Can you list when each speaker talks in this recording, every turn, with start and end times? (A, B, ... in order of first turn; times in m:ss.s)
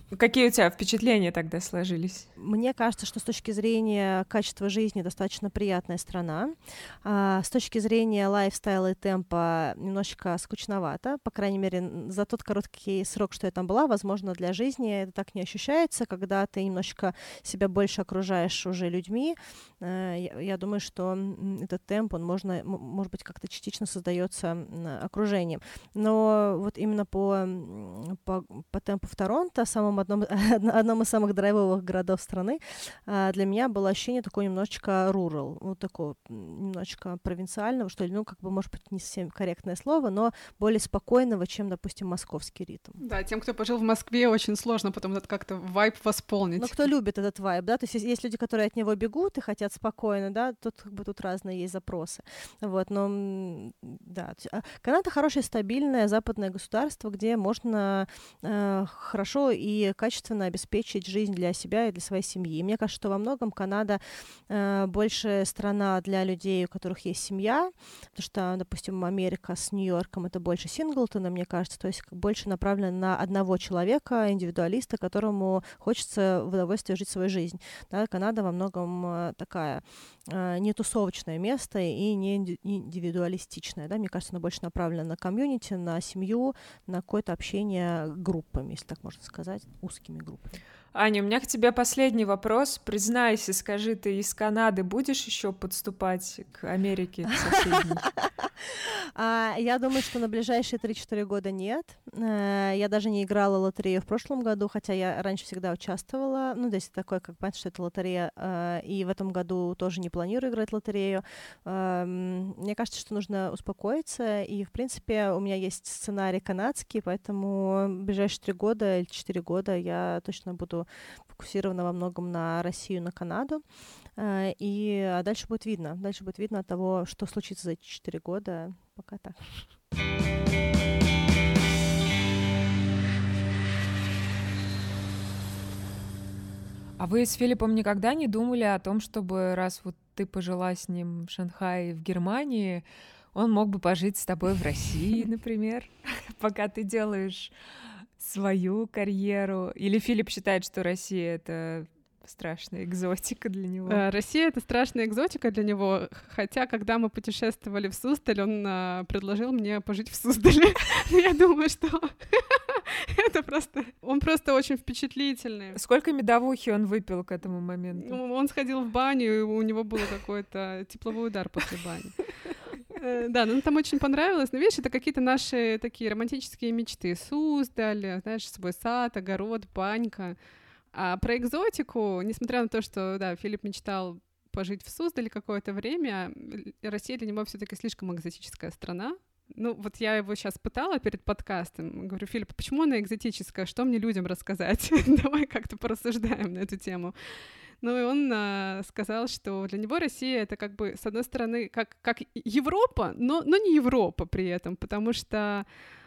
0:00.1-0:02.3 A
0:02.4-0:43.0 B
0:43.0-0:46.8 C
0:46.6-1:30.5 B
1:30.9-1:38.1 A
1:37.5-2:03.6 B
2:04.2-2:09.6 B
2:17.0-2:27.5 A
2:28.2-2:34.0 A
2:33.9-2:45.8 C
2:45.7-2:48.2 A
2:48.0-2:52.1 C
2:52.9-3:00.4 C
3:00.9-3:25.7 C